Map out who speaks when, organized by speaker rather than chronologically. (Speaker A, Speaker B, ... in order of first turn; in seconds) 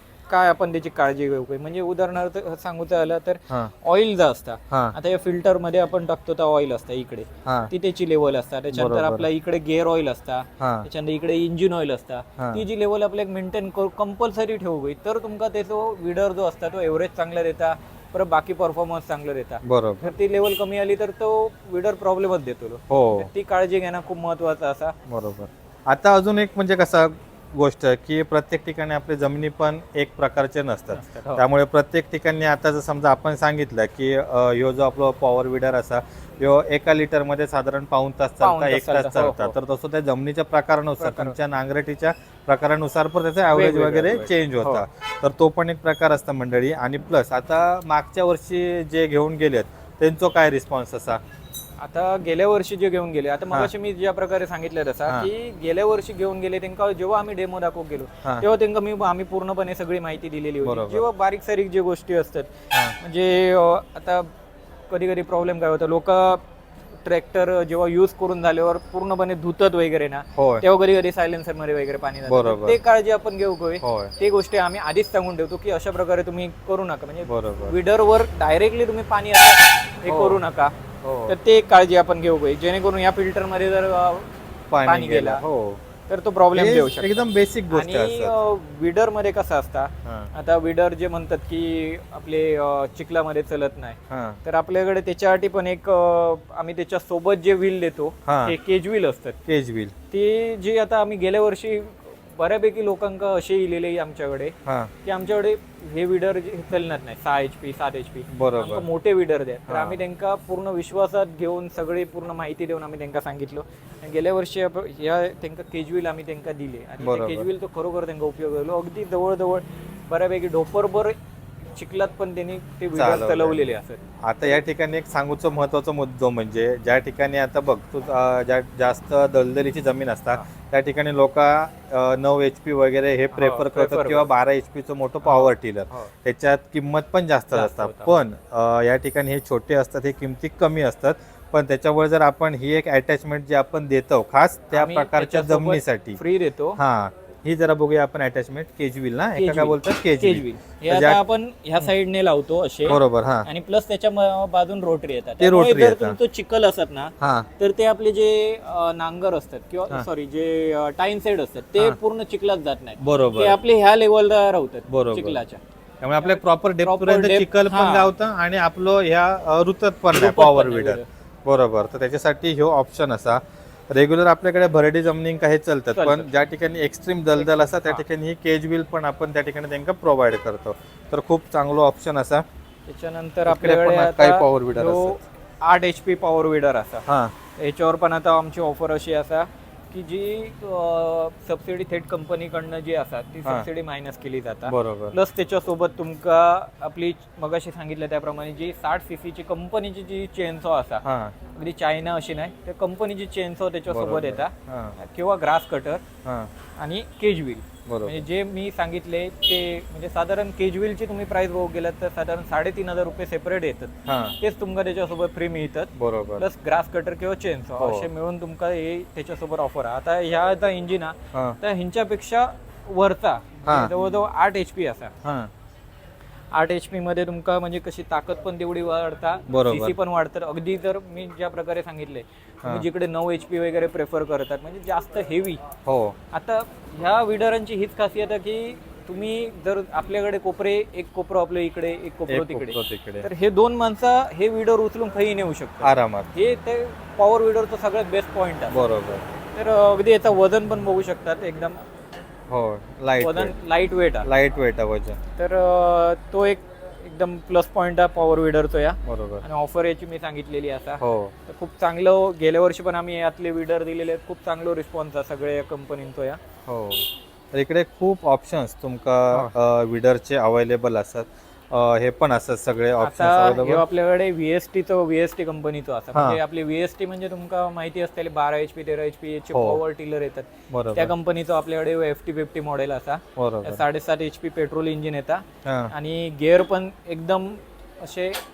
Speaker A: 0.3-25.0, 30.9-31.4, 38.4-39.5, 41.0-41.4, 43.5-44.8, 51.8-64.3, 64.9-66.4, 67.0-80.7, 81.3-84.3, 84.8-85.4, 86.1-99.4, 100.1-121.1, 121.7-124.6, 133.3-134.3, 135.2-136.1, 137.5-138.1, 144.7-146.8, 149.3-165.6, 166.2-168.1, 170.1-171.1, 175.9-176.3, 177.3-178.0, 182.9-187.0, 187.6-206.0, 206.8-225.1, 226.5-235.6, 236.3-248.9, 249.5-251.8, 253.2-254.3, 255.3-266.4, 273.0-288.4
Speaker B: 4.7-5.0, 7.4-7.7, 8.7-9.3, 10.6-10.9, 12.4-12.6, 19.6-20.1, 22.9-23.3, 25.1-51.2, 60.6-61.0, 70.3-70.7, 72.3-72.8, 73.8-74.1, 77.2-77.7, 80.0-80.4, 81.0-81.4, 84.7-85.8, 86.5-88.3, 90.0-90.3, 94.1-94.4, 98.3-98.5, 99.5-99.9, 104.7-104.9, 108.3-108.9, 109.7-110.0, 117.0-117.5, 122.9-123.6, 124.2-146.2, 146.8-151.2, 152.9-153.5, 155.4-156.2, 157.2-157.5, 163.0-163.6, 164.9-165.4, 166.0-182.4, 183.4-185.2, 187.1-187.3, 194.7-195.2, 201.0-201.3, 203.9-205.0, 206.2-206.5, 207.9-208.2, 214.1-214.4, 215.9-216.4, 217.8-218.1, 223.7-223.9, 225.2-225.5, 229.5-229.9, 235.8-236.2, 242.3-243.3, 245.8-246.3, 248.7-249.3, 252.5-253.5, 254.2-255.2, 259.0-259.4, 261.0-261.3, 266.7-273.8, 276.1-276.4, 279.5-279.8, 280.7-281.1, 283.4-283.8, 285.6-285.9